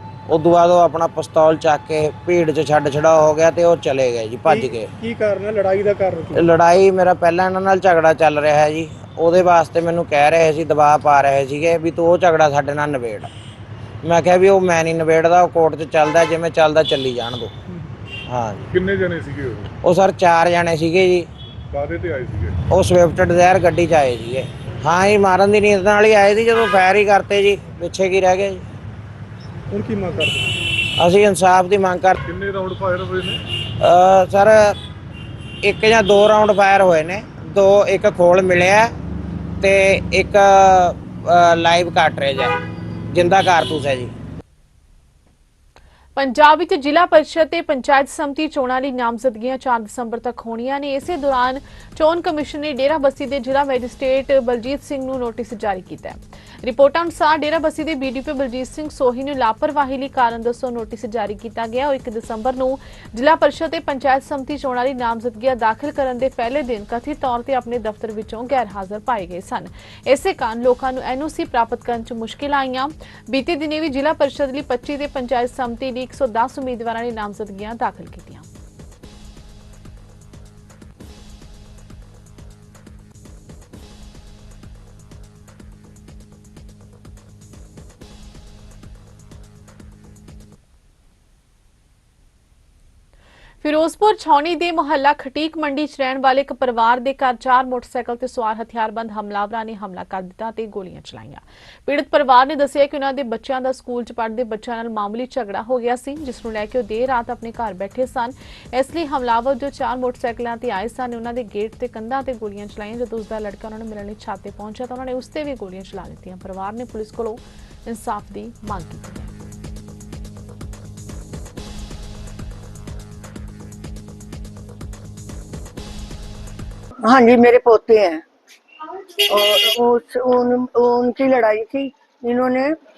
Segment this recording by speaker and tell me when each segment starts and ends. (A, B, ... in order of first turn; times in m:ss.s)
0:00.3-0:04.9 A
0:04.5-0:06.4 B
0:06.3-0:13.3 A
0:14.0-0:17.5 A
0:18.3-0:18.7 A
0:18.7-0:19.7 C
0:19.8-0:21.3 A
0:21.7-0:22.6 C
0:22.7-0:28.6 A
0:29.7-0:30.5 B
0:31.0-0:32.2 A
0:32.3-0:33.4 C
0:33.8-0:34.8 A
0:35.6-0:38.9 A
0:39.6-0:42.6 A
0:43.1-0:44.1 A
0:46.2-1:18.5 D
1:33.6-1:59.3 D
2:07.0-2:08.2 E
2:09.2-2:12.8 E